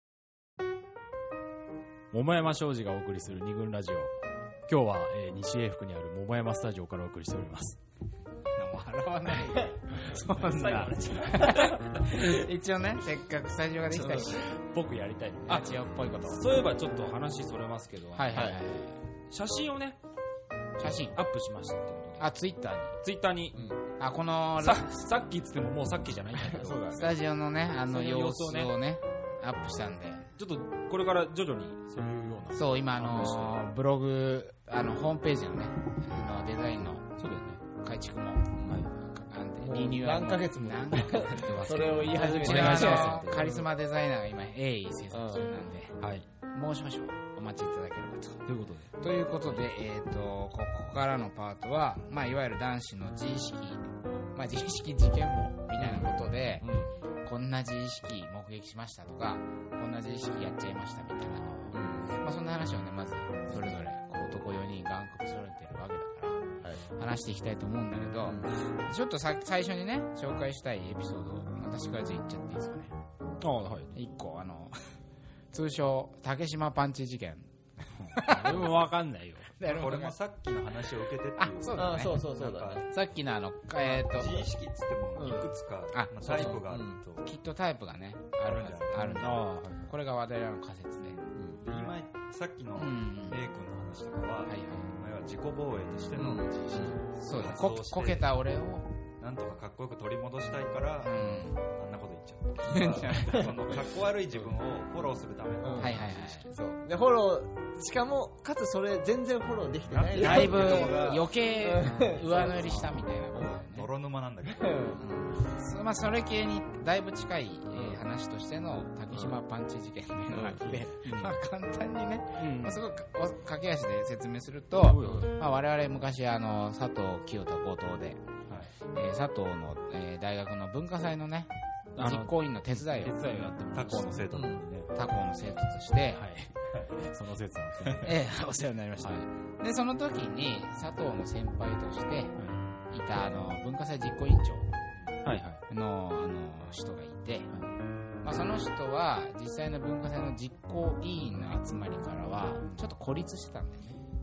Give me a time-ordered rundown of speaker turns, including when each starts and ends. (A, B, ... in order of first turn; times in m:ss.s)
0:02.1-0:07.8 A
0:08.6-0:14.4 B
0:10.3-0:12.2 A
0:13.9-0:18.7 A
0:13.9-0:14.3 C
0:15.5-0:16.4 B
0:18.1-0:19.0 B
0:18.3-0:18.6 C
0:19.3-0:20.0 A
0:20.8-0:22.3 A
0:20.8-0:21.2 B
0:22.2-0:23.0 B
0:23.0-0:23.6 A
0:23.5-0:23.8 C
0:24.0-0:24.9 B
0:24.6-0:26.8 A
0:26.4-0:27.2 C
0:26.9-0:30.3 B
0:27.8-0:28.7 A
0:30.4-0:33.6 A
0:32.5-0:46.0 B
0:37.2-0:37.6 A
0:38.6-0:38.9 A
0:39.6-0:43.7 C
0:41.3-0:43.6 A
0:45.1-0:45.5 C
0:46.0-0:46.2 A
0:46.5-0:48.4 B
0:48.4-0:48.9 A
0:49.0-1:12.9 B
0:55.8-0:56.9 C
1:01.7-1:02.2 C
1:08.2-1:08.6 C
1:13.4-1:14.0 A
1:13.9-1:14.8 B
1:15.5-1:17.5 B
1:18.0-1:19.5 A
1:18.1-1:18.8 B
1:19.5-1:20.2 B
1:19.6-1:22.9 D
1:21.4-1:22.2 B
1:21.7-1:22.9 C
1:22.9-1:24.5 B
1:23.8-1:27.3 D
1:25.2-1:25.5 C
1:25.9-1:26.5 B
1:26.2-1:27.0 C
1:27.2-1:31.2 B
1:28.4-1:29.2 D
1:29.0-1:29.9 A
1:31.3-1:31.6 C
1:31.6-1:38.3 D
1:32.8-1:33.4 B
1:34.5-1:34.9 B
1:36.2-1:37.0 C
1:37.2-1:38.9 B
1:39.2-1:46.4 D
1:41.0-1:41.6 B
1:42.6-1:43.5 C
1:42.7-1:43.7 B
1:45.6-1:52.7 C
1:45.8-1:46.5 B
1:49.9-1:51.3 D
1:50.2-1:53.9 B
1:52.6-1:53.0 A
1:53.3-1:53.6 C
1:53.5-1:55.0 D
1:54.5-1:55.1 C
1:55.0-2:08.2 B
1:57.7-1:58.0 C
1:59.1-1:59.4 C
2:00.3-2:00.8 C
2:01.0-2:01.4 A
2:02.4-2:02.8 A
2:04.8-2:05.3 A
2:08.8-2:13.5 B
2:12.0-2:14.2 A
2:13.2-2:14.9 D
2:14.3-2:14.6 C
2:14.9-2:16.2 B
2:16.1-2:18.2 A
2:18.0-2:22.4 B
2:22.9-2:24.7 B
2:25.2-2:25.6 A
2:25.6-2:27.5 B
2:28.2-2:34.0 B
2:32.6-2:32.9 A